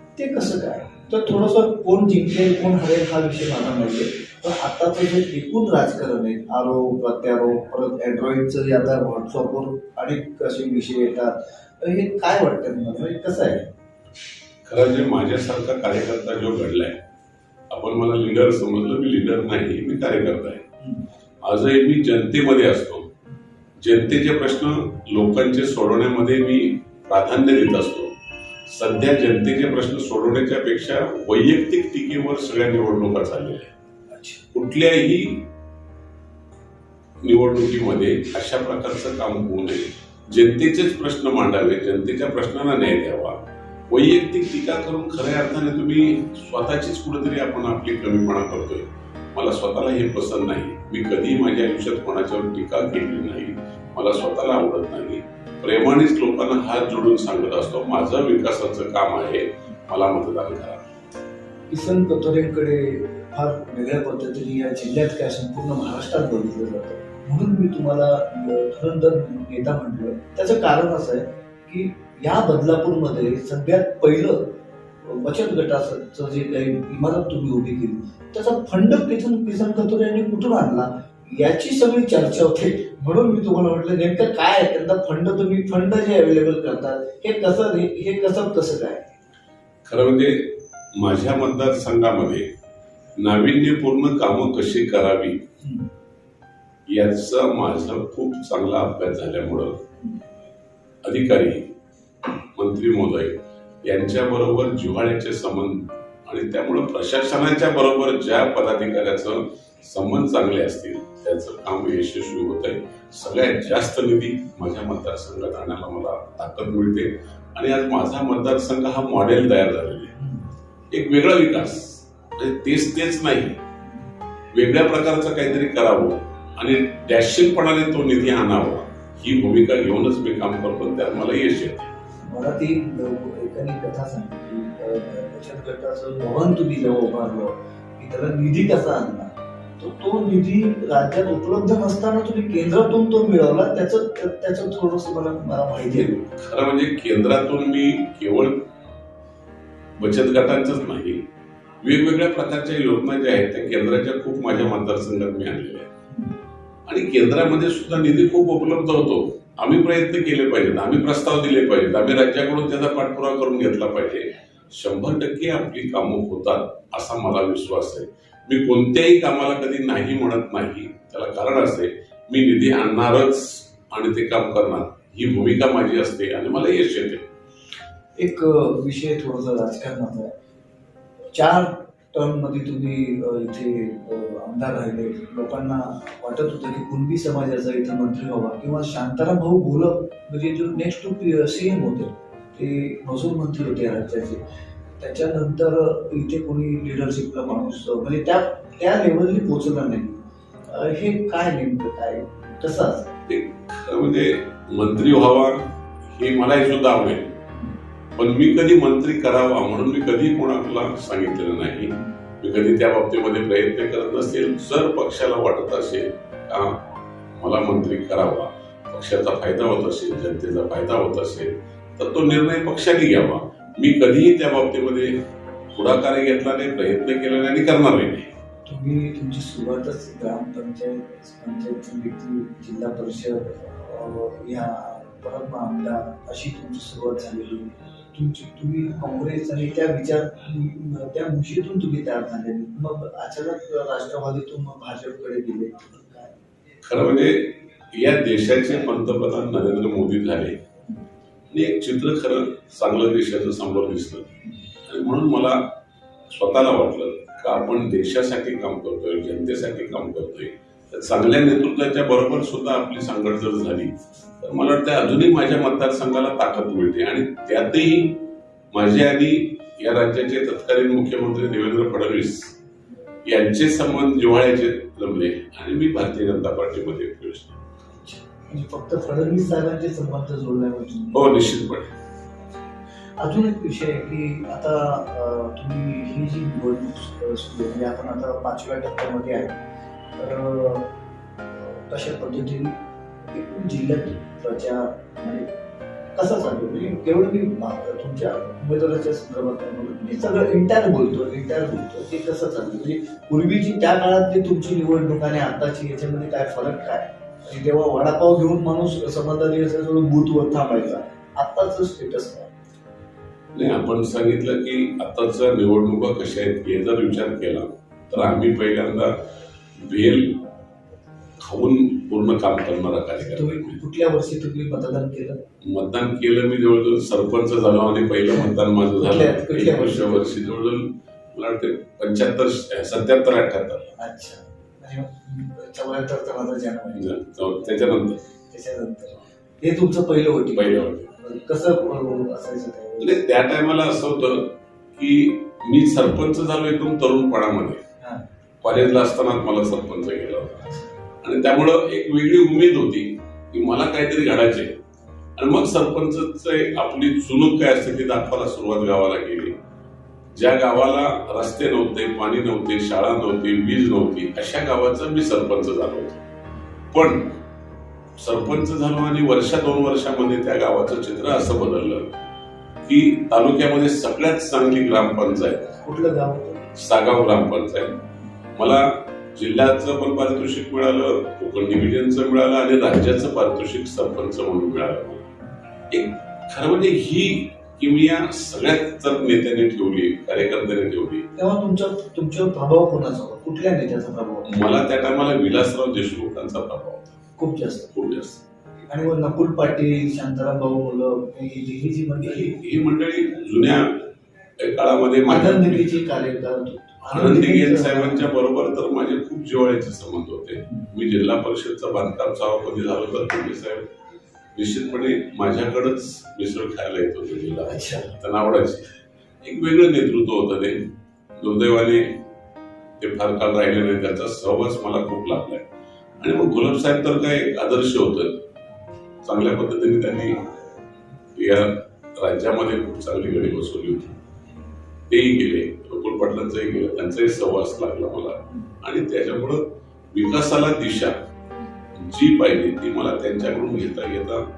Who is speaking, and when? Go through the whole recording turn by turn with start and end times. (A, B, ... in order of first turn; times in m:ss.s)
0:00.2-0:13.7 A
0:14.6-0:17.0 B
0:17.7-0:20.6 B
0:21.4-0:23.1 B
0:23.8-0:28.1 B
0:28.7-0:33.7 B
0:34.1-0:34.4 A
0:34.5-0:35.5 B
0:37.2-0:43.4 B
0:43.9-1:00.8 B
1:01.7-1:29.1 A
1:29.8-1:32.5 B
1:33.2-1:35.4 B
1:36.9-1:39.8 B
1:41.0-1:41.7 B
1:42.6-2:00.1 B
2:00.2-2:00.5 A
2:00.9-2:03.6 B
2:04.5-2:11.9 B
2:12.2-2:26.1 A
2:25.9-2:28.7 B
2:30.0-2:31.2 B
2:31.8-2:35.9 B
2:36.9-2:57.3 B
2:58.2-3:00.3 A
3:01.3-3:14.4 A
3:15.0-3:23.1 A
3:23.3-3:27.4 B
3:28.2-3:45.1 B
3:45.8-3:48.3 B
3:48.7-4:06.4 A
4:06.8-4:10.6 B
4:11.5-4:14.3 B
4:14.9-4:15.8 B
4:16.3-4:32.5 B
4:33.2-4:37.6 B
4:38.0-4:41.3 A
4:41.1-4:41.9 B
4:43.2-4:49.6 A
4:50.2-4:50.9 A
4:51.5-4:55.5 A
4:56.2-5:12.5 A
5:13.5-5:19.2 B
5:19.8-5:20.4 B
5:21.4-5:23.8 B
5:23.2-5:25.4 A
5:25.6-5:34.0 B
5:29.0-5:30.4 A
5:34.0-5:37.2 A
5:36.9-5:38.2 B
5:38.5-5:43.2 A
5:40.5-5:41.1 B
5:43.0-5:47.8 B
5:48.6-5:54.8 B
5:55.4-5:59.5 B
6:00.4-6:06.2 B
6:06.9-6:07.4 B
6:08.2-6:12.2 B
6:12.8-6:15.8 B
6:15.8-6:16.7 A
6:16.8-6:18.0 B
6:18.6-6:25.3 B
6:25.9-6:31.3 B
6:31.4-6:34.5 A
6:34.5-6:37.2 B
6:37.4-6:37.9 A
6:37.9-6:38.4 B
6:38.9-6:42.5 A
6:42.2-6:44.1 B
6:44.6-6:45.9 B
6:45.3-6:48.3 A
6:47.1-6:53.9 B
6:54.6-7:02.2 B
6:57.7-6:58.1 A
7:03.0-7:05.7 B
7:06.2-7:08.4 B
7:09.2-7:10.4 B
7:11.4-7:14.2 B
7:15.1-7:21.3 B
7:22.0-7:24.4 B